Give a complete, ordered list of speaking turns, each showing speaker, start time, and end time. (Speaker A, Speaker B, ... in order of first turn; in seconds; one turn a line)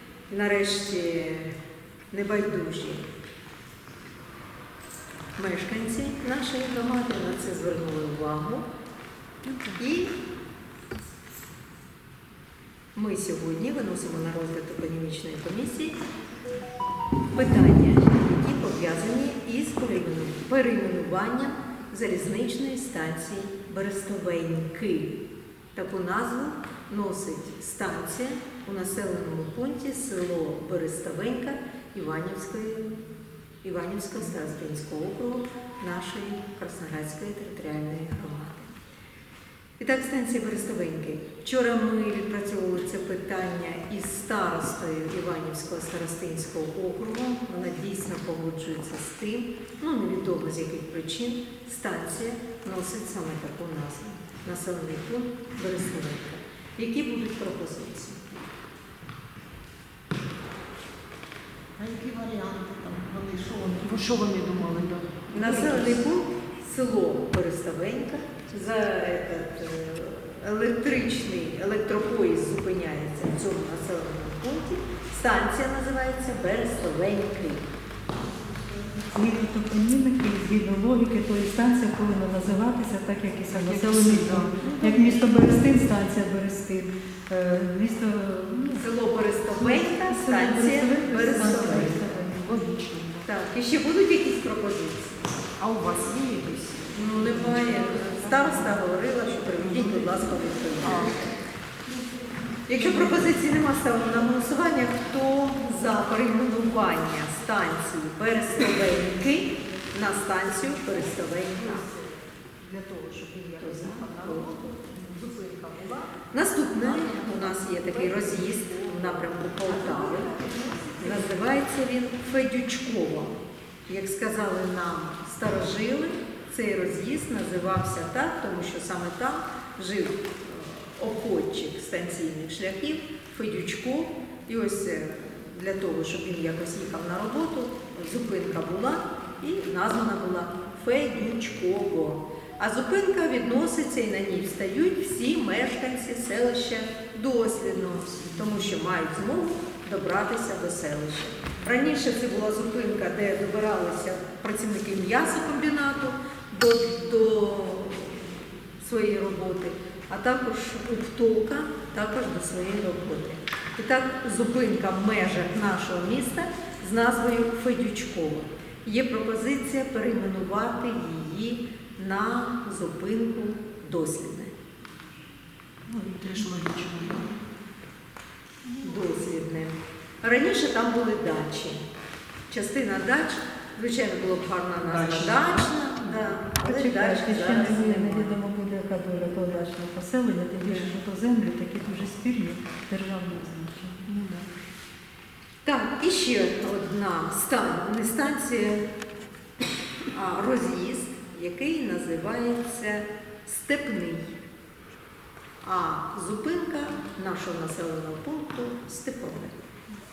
Speaker A: 0.3-1.5
Speaker A: 2.1-3.0
Speaker A: 5.3-8.7
Speaker B: 9.4-9.8
Speaker A: 9.8-10.1
Speaker A: 12.9-15.9
Speaker A: 17.3-25.1
Speaker A: 25.7-32.9
Speaker A: 33.6-38.7
Speaker A: 39.8-58.4
Speaker C: 61.8-63.8
Speaker B: 63.7-66.0
Speaker A: 65.3-77.7
Speaker D: 79.1-88.9
Speaker B: 83.5-85.2
Speaker A: 88.7-92.1
Speaker D: 89.5-92.8
Speaker B: 91.2-93.3
Speaker A: 93.2-95.2
Speaker B: 95.6-98.8
Speaker A: 96.9-101.2
Speaker B: 99.3-101.3
Speaker A: 102.7-111.9
Speaker B: 102.7-103.3
Speaker B: 111.6-112.0
Speaker B: 112.6-116.1
Speaker A: 113.5-114.6
Speaker A: 116.2-120.3
Speaker B: 116.7-121.3
Speaker A: 121.0-158.3
Speaker A: 158.8-174.5
Speaker B: 175.9-177.3
Speaker A: 178.8-181.8
Speaker A: 182.5-188.4
Speaker B: 184.8-185.7
Speaker D: 186.6-194.1
Speaker B: 194.1-194.4
Speaker A: 195.6-198.8
Speaker A: 200.1-204.3
Speaker A: 205.6-209.5